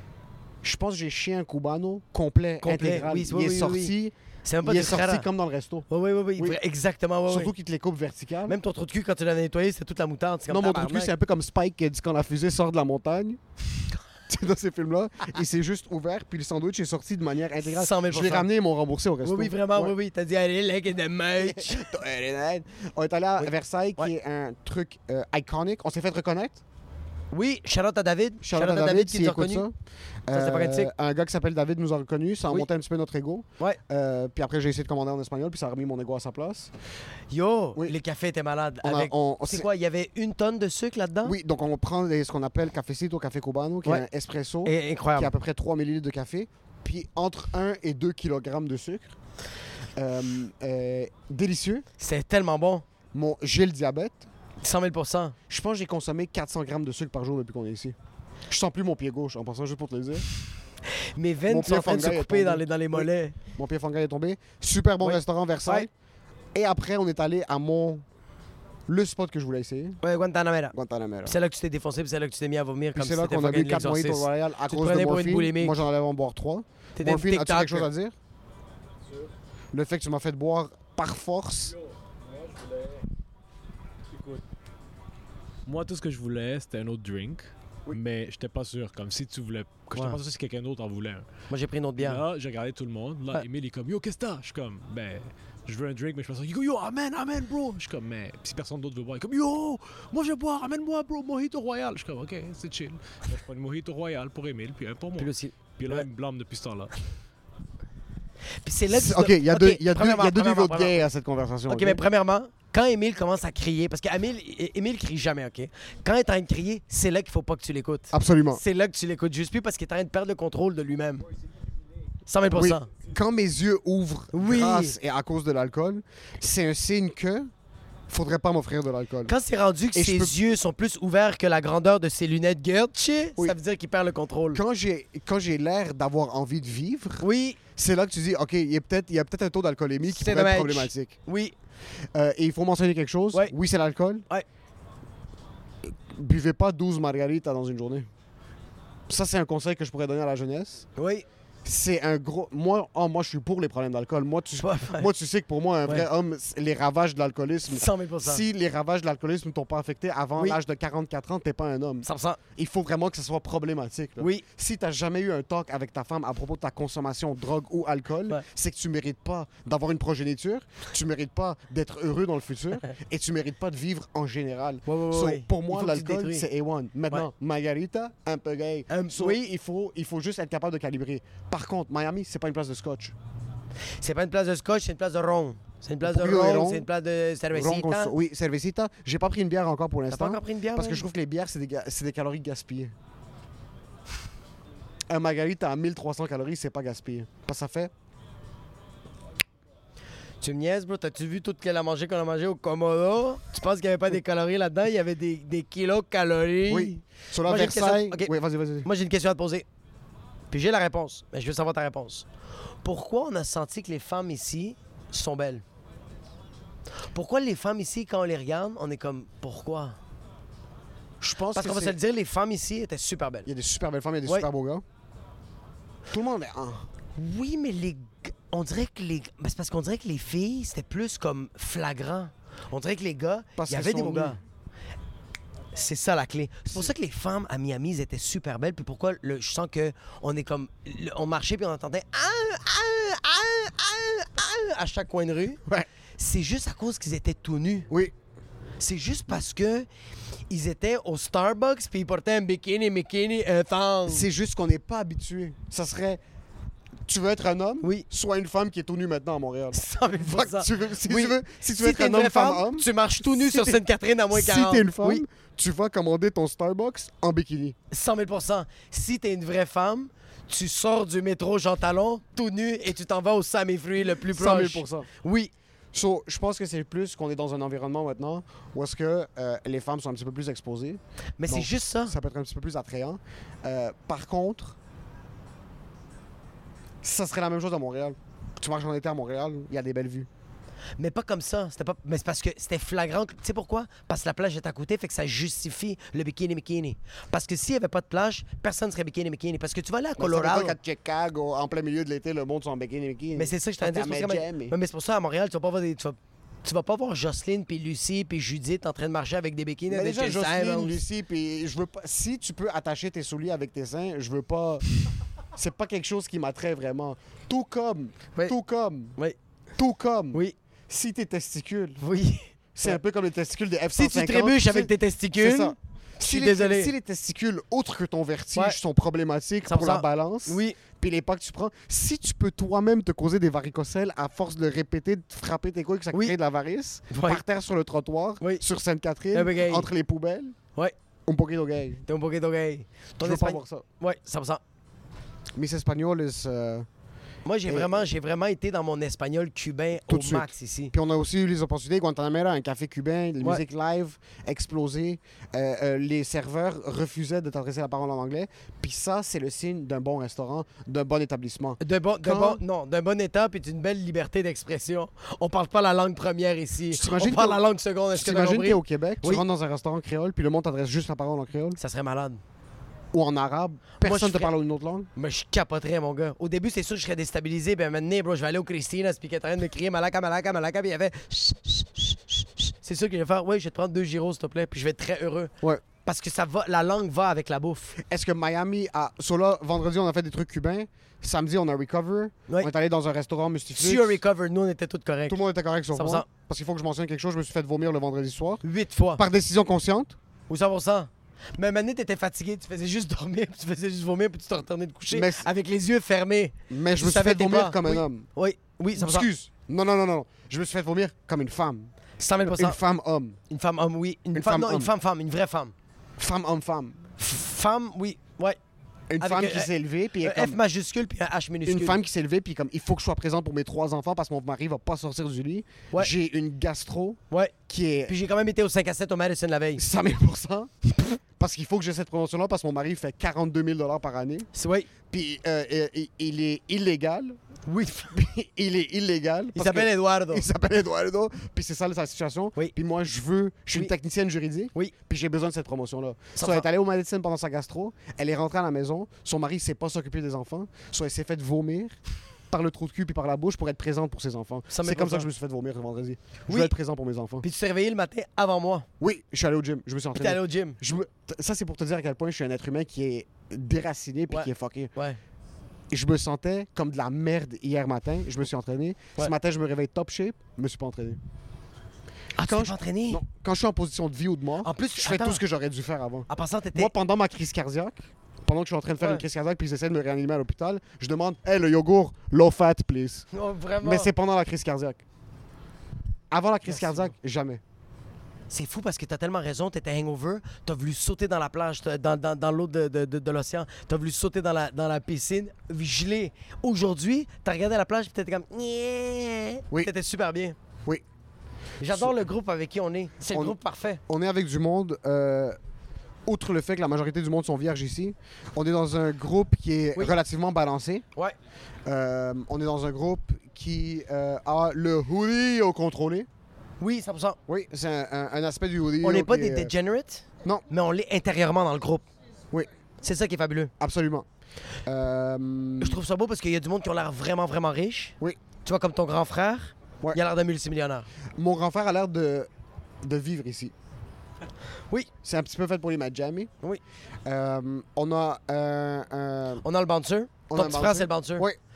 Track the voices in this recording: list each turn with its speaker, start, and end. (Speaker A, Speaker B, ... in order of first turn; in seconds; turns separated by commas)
Speaker A: 0.6-5.9, Speaker B: 2.6-3.9, Speaker B: 4.4-5.3, Speaker B: 5.9-7.5, Speaker A: 7.3-8.6, Speaker B: 8.5-11.1, Speaker A: 10.5-13.4, Speaker A: 14.3-19.9, Speaker B: 17.6-18.5, Speaker B: 19.2-21.9, Speaker A: 21.4-26.6, Speaker B: 23.4-24.1, Speaker B: 27.3-29.7, Speaker A: 28.4-29.7, Speaker A: 30.3-36.7, Speaker B: 30.3-30.9, Speaker B: 37.3-41.4, Speaker A: 38.8-39.7, Speaker A: 41.2-49.1, Speaker B: 44.6-45.3, Speaker A: 50.0-51.9, Speaker B: 52.0-52.8, Speaker A: 53.1-54.2, Speaker B: 54.6-55.4, Speaker A: 55.5-57.9, Speaker A: 58.5-60.2, Speaker B: 60.9-63.4, Speaker A: 61.5-65.9, Speaker B: 65.0-65.9, Speaker A: 66.5-68.0, Speaker A: 68.9-70.0, Speaker B: 70.0-70.7, Speaker A: 70.7-71.4, Speaker B: 71.2-75.8, Speaker A: 72.9-78.1, Speaker B: 77.0-77.9, Speaker A: 79.7-81.8, Speaker C: 85.7-91.3, Speaker B: 89.9-90.2, Speaker B: 91.5-92.2, Speaker C: 92.0-106.9, Speaker B: 105.2-106.1, Speaker B: 108.6-111.1, Speaker A: 108.9-112.0, Speaker B: 111.7-121.2, Speaker A: 118.1-118.6, Speaker B: 122.3-122.9, Speaker A: 122.5-127.5, Speaker B: 124.3-125.0, Speaker A: 128.1-129.3, Speaker B: 129.2-134.6, Speaker A: 129.9-130.4, Speaker A: 134.5-141.2, Speaker B: 137.2-137.6, Speaker B: 140.1-141.5, Speaker A: 142.1-144.2, Speaker A: 145.8-148.1, Speaker A: 149.1-150.9, Speaker B: 151.0-151.2, Speaker A: 151.6-183.1, Speaker B: 154.6-155.1, Speaker B: 157.7-158.4, Speaker B: 162.0-162.4, Speaker B: 164.2-164.4, Speaker B: 174.9-176.4, Speaker B: 178.9-179.4, Speaker B: 184.0-188.1, Speaker A: 186.0-186.9, Speaker A: 187.5-192.9, Speaker B: 190.1-191.0, Speaker A: 195.1-197.9, Speaker B: 200.4-208.3, Speaker A: 206.7-208.9, Speaker B: 208.8-209.7, Speaker B: 210.5-212.3, Speaker B: 212.8-215.6, Speaker B: 217.0-220.0, Speaker A: 221.2-222.0, Speaker B: 221.5-223.5, Speaker A: 223.4-224.8, Speaker A: 226.1-226.9, Speaker B: 227.1-234.4, Speaker A: 233.6-234.4, Speaker B: 235.7-245.6, Speaker B: 246.2-247.9, Speaker B: 248.8-249.9, Speaker B: 250.5-254.3, Speaker A: 254.1-256.2, Speaker A: 257.1-267.8, Speaker B: 259.7-265.2, Speaker B: 267.9-275.5, Speaker A: 274.2-275.1, Speaker A: 275.9-284.8, Speaker B: 281.4-282.1, Speaker A: 287.0-290.3, Speaker B: 291.0-300.8, Speaker A: 300.2-304.7, Speaker B: 303.4-311.0, Speaker A: 309.9-314.9, Speaker A: 315.5-319.1, Speaker A: 319.8-322.0, Speaker B: 322.0-323.0, Speaker A: 322.7-340.6, Speaker B: 323.9-326.9, Speaker B: 329.6-330.8, Speaker B: 337.1-337.4, Speaker B: 339.3-339.9, Speaker A: 341.3-342.0, Speaker B: 342.1-344.6, Speaker A: 343.2-343.9, Speaker A: 345.5-346.9, Speaker B: 347.4-350.9, Speaker A: 347.6-348.0, Speaker A: 350.0-362.6, Speaker B: 361.8-369.4, Speaker A: 366.9-371.8, Speaker B: 371.8-372.4, Speaker A: 373.1-375.1, Speaker B: 374.0-374.5, Speaker B: 375.1-388.0, Speaker A: 388.0-394.2, Speaker B: 393.8-395.4, Speaker A: 395.3-398.6, Speaker B: 395.9-396.3, Speaker B: 398.6-399.2, Speaker A: 399.2-400.1, Speaker B: 400.5-409.3, Speaker A: 405.1-405.5, Speaker A: 406.7-408.3, Speaker A: 408.9-411.9, Speaker B: 412.2-412.8, Speaker A: 412.5-413.4, Speaker B: 413.5-415.7, Speaker A: 414.3-414.9, Speaker A: 416.2-417.0, Speaker B: 417.2-418.6, Speaker A: 419.1-420.6, Speaker B: 419.2-422.0, Speaker A: 421.6-428.1, Speaker B: 428.1-429.8, Speaker A: 429.8-430.7, Speaker A: 431.4-434.5, Speaker B: 434.5-434.9, Speaker A: 435.1-437.4, Speaker B: 437.7-438.2, Speaker A: 438.1-451.9, Speaker B: 439.5-440.4, Speaker B: 446.4-446.6, Speaker A: 452.5-457.4, Speaker B: 454.7-455.3, Speaker B: 456.5-456.7, Speaker B: 457.4-458.9, Speaker A: 459.0-464.9, Speaker B: 460.1-460.8, Speaker B: 464.3-465.2, Speaker A: 465.9-471.2, Speaker B: 472.4-473.2, Speaker A: 472.4-483.3, Speaker B: 474.6-475.4, Speaker B: 476.3-476.9, Speaker B: 483.3-484.1, Speaker A: 483.8-485.0, Speaker A: 486.3-487.6, Speaker B: 486.7-487.1, Speaker B: 488.5-500.6, Speaker B: 501.8-504.0, Speaker A: 501.9-502.2, Speaker A: 503.3-505.6, Speaker A: 506.2-511.0, Speaker A: 511.9-516.3, Speaker B: 516.8-517.4, Speaker A: 517.5-519.7, Speaker B: 519.0-522.0, Speaker B: 523.0-523.7, Speaker A: 523.8-524.2, Speaker A: 524.9-526.0, Speaker B: 525.8-531.1, Speaker A: 531.4-532.5, Speaker A: 533.0-533.7, Speaker A: 535.2-536.5, Speaker A: 537.2-539.6, Speaker B: 539.6-541.5, Speaker A: 540.5-541.6